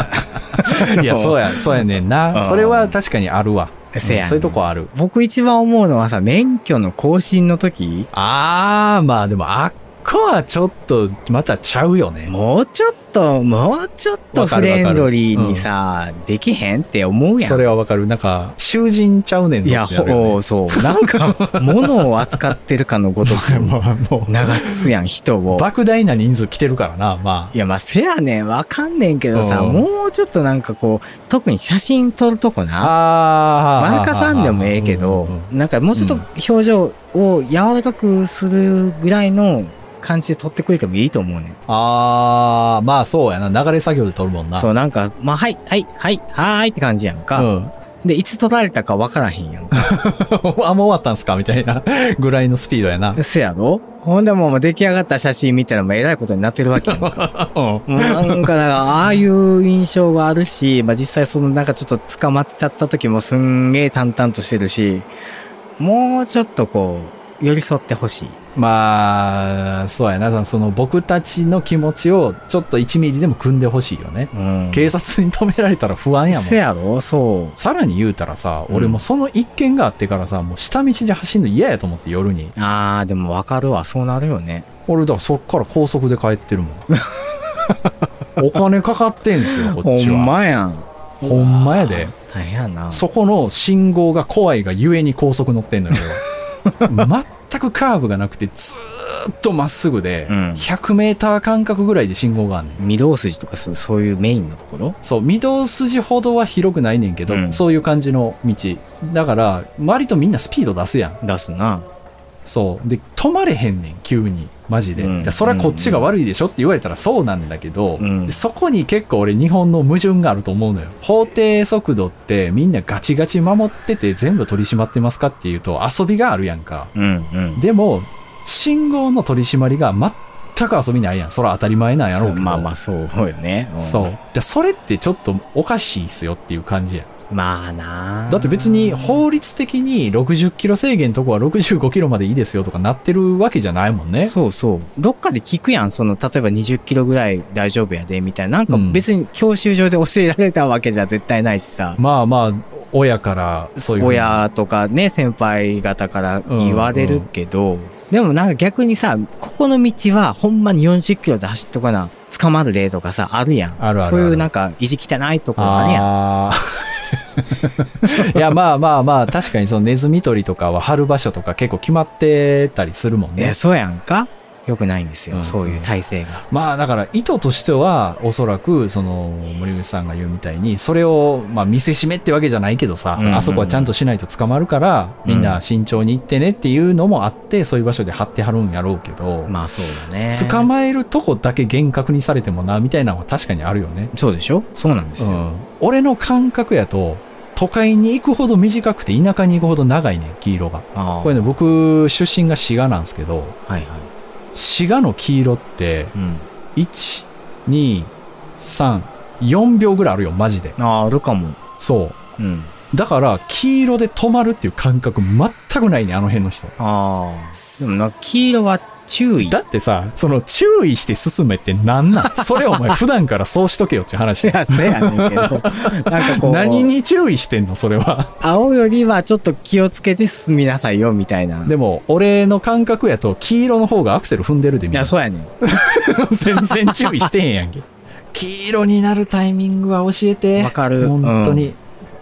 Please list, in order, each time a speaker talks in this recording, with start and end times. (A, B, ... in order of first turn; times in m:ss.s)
0:00.2-0:03.0 A
0:00.6-0:04.9 B
0:03.9-0:08.1 A
0:08.1-0:12.3 B
0:12.3-0:17.7 A
0:14.3-0:15.7 B
0:17.4-0:22.5 B
0:19.6-0:25.7 A
0:23.2-0:24.9 B
0:25.5-0:27.5 B
0:27.5-0:32.9 A
0:29.3-0:29.8 B
0:32.8-0:36.2 B
0:33.8-0:41.6 A
0:41.7-0:44.7 B
0:44.5-0:47.5 A
0:47.3-0:47.7 B
0:48.0-0:50.0 A
0:49.7-0:53.2 B
0:53.1-0:57.3 A
0:56.8-0:58.5 B
0:57.8-1:05.1 A
1:05.8-1:08.4 A
1:08.5-1:16.6 B
1:14.3-1:15.0 A
1:16.3-1:17.6 A
1:17.6-1:22.5 B
1:18.7-1:19.0 A
1:22.6-1:24.6 A
1:24.9-1:26.8 B
1:26.9-1:27.9 A
1:28.4-1:30.3 B
1:29.4-1:33.0 A
1:31.2-1:32.1 B
1:32.9-1:36.2 B
1:36.6-1:37.0 A
1:36.8-1:42.8 B
1:40.3-1:40.7 A
1:42.8-1:45.0 A
1:45.0-1:51.2 B
1:47.3-1:47.6 A
1:51.2-1:51.8 A
1:52.4-2:06.9 B
1:55.0-1:56.1 A
1:58.0-1:58.4 A
2:06.9-2:07.6 A
2:07.6-2:12.7 B
2:12.1-2:14.1 A
2:13.8-2:17.1 B
2:17.3-2:19.2 A
2:18.3-2:24.3 B
2:24.2-2:32.0 A
2:28.7-2:29.0 B
2:32.0-2:34.4 B
2:33.8-2:46.1 A
2:36.4-2:37.3 B
2:43.8-2:44.5 B
2:45.6-2:53.6 B
2:53.4-2:56.4 A
2:55.3-2:55.9 B
2:56.5-3:09.6 B
3:03.2-3:03.9 A
3:05.2-3:05.6 A
3:09.5-3:10.7 A
3:10.3-3:14.1 B
3:14.1-3:15.4 A
3:15.2-3:23.6 B
3:20.9-3:21.5 A
3:23.6-3:24.1 A
3:24.5-3:26.1 B
3:26.1-3:26.4 A
3:26.7-3:30.8 B
3:30.8-3:31.6 A
3:31.8-3:32.2 B
3:32.4-3:32.7 A
3:32.9-3:36.7 B
3:36.8-3:39.6 A
3:39.4-3:48.3 B
3:42.2-3:43.0 A
3:44.4-3:46.9 A
3:48.4-3:51.7 A
3:51.6-4:01.8 B
3:54.9-3:55.5 A
3:56.9-3:57.2 A
4:00.5-4:01.7 A